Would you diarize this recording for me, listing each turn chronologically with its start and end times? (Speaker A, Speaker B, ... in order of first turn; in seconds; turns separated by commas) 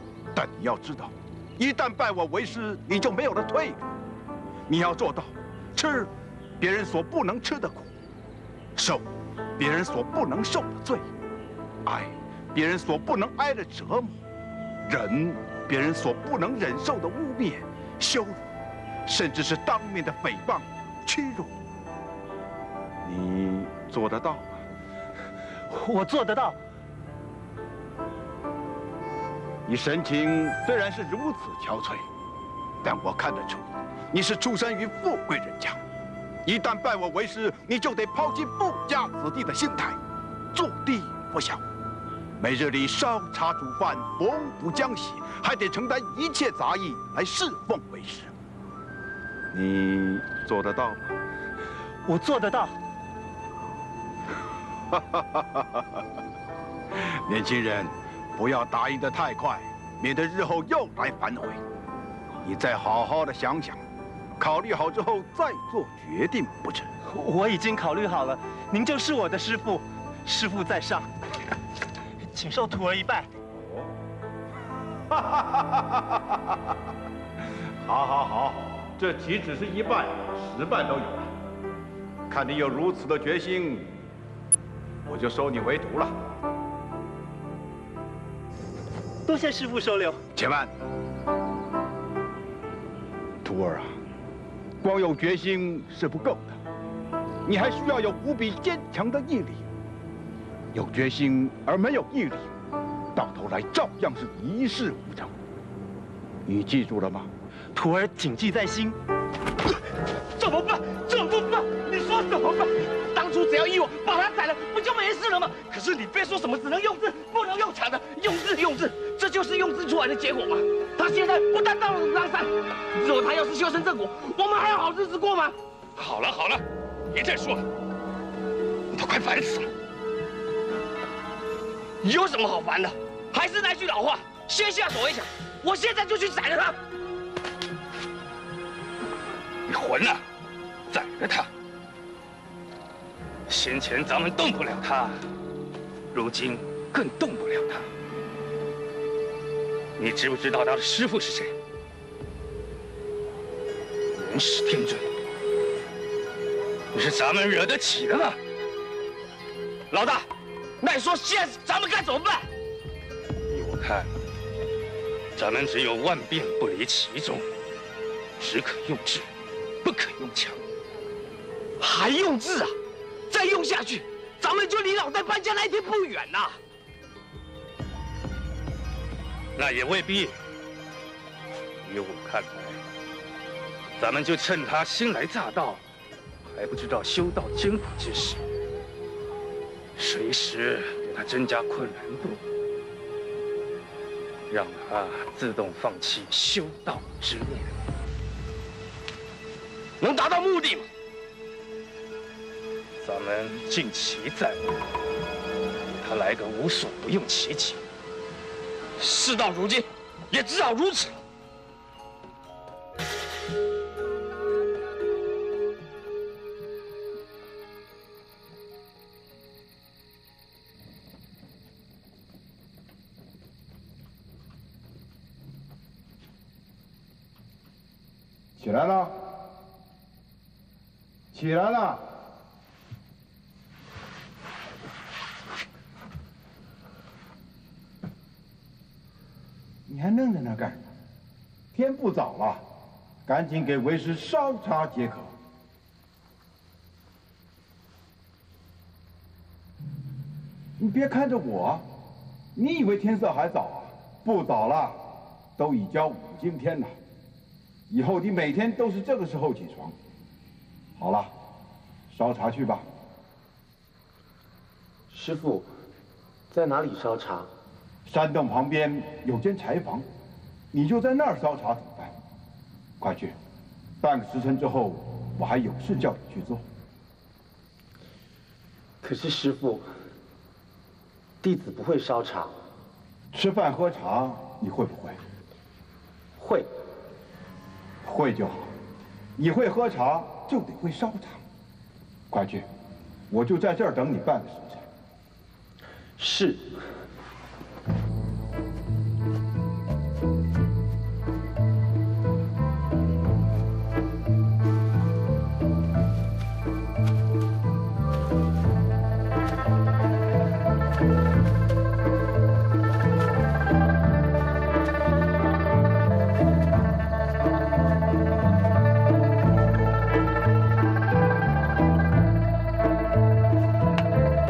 Speaker A: 0.3-3.9, Speaker A: 4.7-7.9, Speaker A: 8.8-11.1, Speaker A: 11.8-14.2, Speaker A: 14.9-18.4, Speaker A: 19.1-21.6, Speaker A: 23.0-24.6, Speaker B: 25.7-26.6, Speaker A: 29.7-32.1, Speaker A: 32.8-35.8, Speaker A: 36.4-40.0, Speaker A: 40.5-41.6, Speaker A: 42.4-48.3, Speaker A: 49.5-51.1, Speaker B: 52.1-52.8, Speaker A: 54.9-56.1, Speaker A: 56.9-61.6, Speaker A: 62.4-63.8, Speaker A: 64.4-66.9, Speaker B: 67.0-71.1, Speaker B: 72.3-73.3, Speaker A: 75.1-76.6, Speaker A: 77.8-81.3, Speaker A: 82.3-84.0, Speaker A: 85.0-86.2, Speaker B: 89.3-90.2, Speaker A: 90.3-90.7, Speaker A: 93.4-94.0, Speaker A: 94.8-96.6, Speaker A: 97.5-99.7, Speaker A: 100.7-102.5, Speaker A: 103.1-105.3, Speaker A: 106.5-107.3, Speaker B: 107.8-109.0, Speaker C: 110.4-125.5, Speaker D: 126.0-126.6, Speaker C: 127.1-127.6, Speaker C: 129.0-129.6, Speaker C: 132.0-136.8, Speaker D: 139.7-140.2, Speaker D: 140.9-141.5, Speaker D: 143.5-145.3, Speaker D: 146.1-147.9, Speaker D: 150.0-151.5, Speaker D: 154.2-155.1, Speaker D: 156.9-158.4, Speaker C: 160.8-162.5, Speaker D: 163.5-164.1, Speaker D: 165.4-167.5, Speaker D: 168.4-169.3, Speaker D: 169.8-170.6, Speaker C: 171.8-172.7, Speaker C: 173.3-176.6, Speaker D: 179.6-180.3, Speaker D: 181.8-182.8, Speaker D: 184.0-185.8, Speaker D: 186.4-188.4, Speaker D: 190.0-192.4, Speaker D: 194.5-197.8, Speaker C: 200.0-200.9, Speaker D: 203.0-204.8, Speaker D: 206.0-207.8, Speaker C: 209.0-211.2, Speaker A: 228.6-229.4, Speaker A: 231.3-232.1, Speaker A: 239.9-240.8, Speaker A: 241.7-242.6, Speaker A: 243.3-245.3, Speaker A: 250.8-251.9, Speaker A: 252.6-257.0, Speaker A: 257.9-260.0, Speaker A: 261.0-261.3, Speaker A: 262.1-262.9, Speaker B: 265.1-265.7, Speaker B: 266.5-267.5, Speaker A: 268.1-270.1, Speaker A: 270.7-272.1, Speaker A: 273.0-273.4, Speaker A: 274.0-276.6, Speaker B: 279.0-279.9, Speaker B: 281.4-282.5, Speaker A: 283.3-285.2, Speaker B: 286.4-286.7, Speaker A: 288.0-288.7, Speaker A: 289.4-291.4, Speaker A: 292.3-292.7, Speaker A: 293.3-294.9, Speaker B: 296.2-296.7